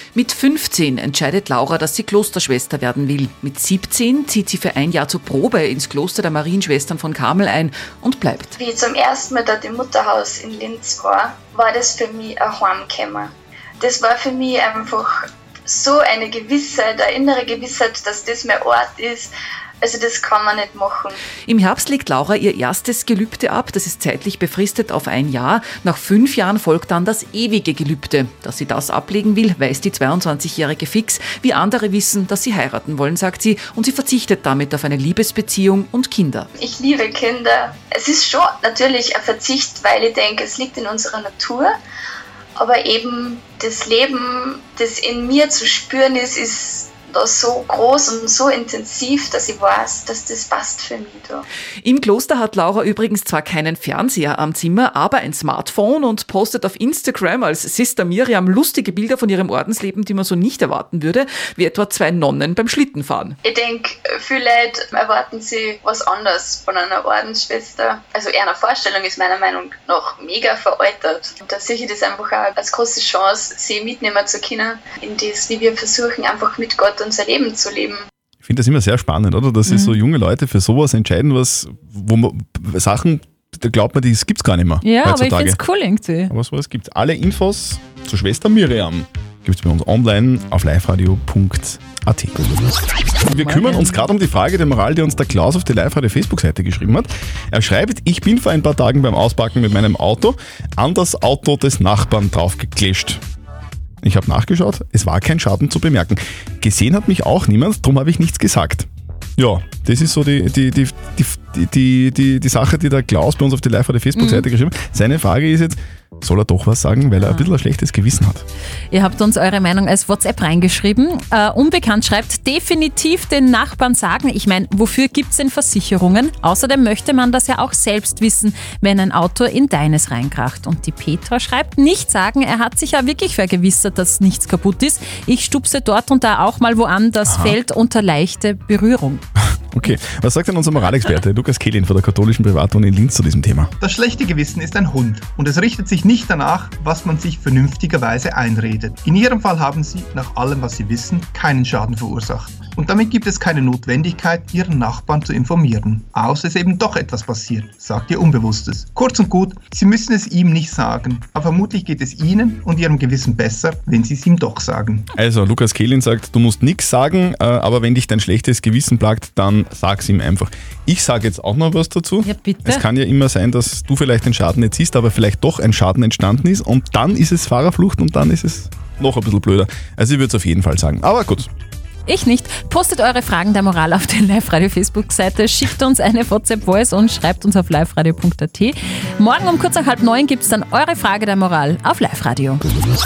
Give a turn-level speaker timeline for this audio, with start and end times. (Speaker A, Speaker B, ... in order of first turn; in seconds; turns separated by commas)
Speaker A: 0.1-8.6, Speaker B: 8.5-21.2, Speaker A: 21.5-36.5, Speaker B: 36.5-41.7, Speaker B: 42.5-51.5, Speaker A: 51.8-63.4, Speaker B: 63.4-78.0, Speaker C: 78.4-85.6, Speaker D: 79.7-80.0, Speaker D: 84.8-86.3, Speaker C: 86.3-92.3, Speaker D: 93.3-94.0, Speaker C: 93.3-103.2, Speaker C: 104.0-118.4, Speaker D: 114.2-114.4, Speaker D: 117.2-117.5, Speaker D: 118.9-139.2, Speaker C: 137.2-137.6, Speaker C: 139.7-143.7, Speaker E: 143.8-165.1, Speaker C: 165.1-181.5, Speaker D: 172.2-172.8, Speaker D: 182.1-192.6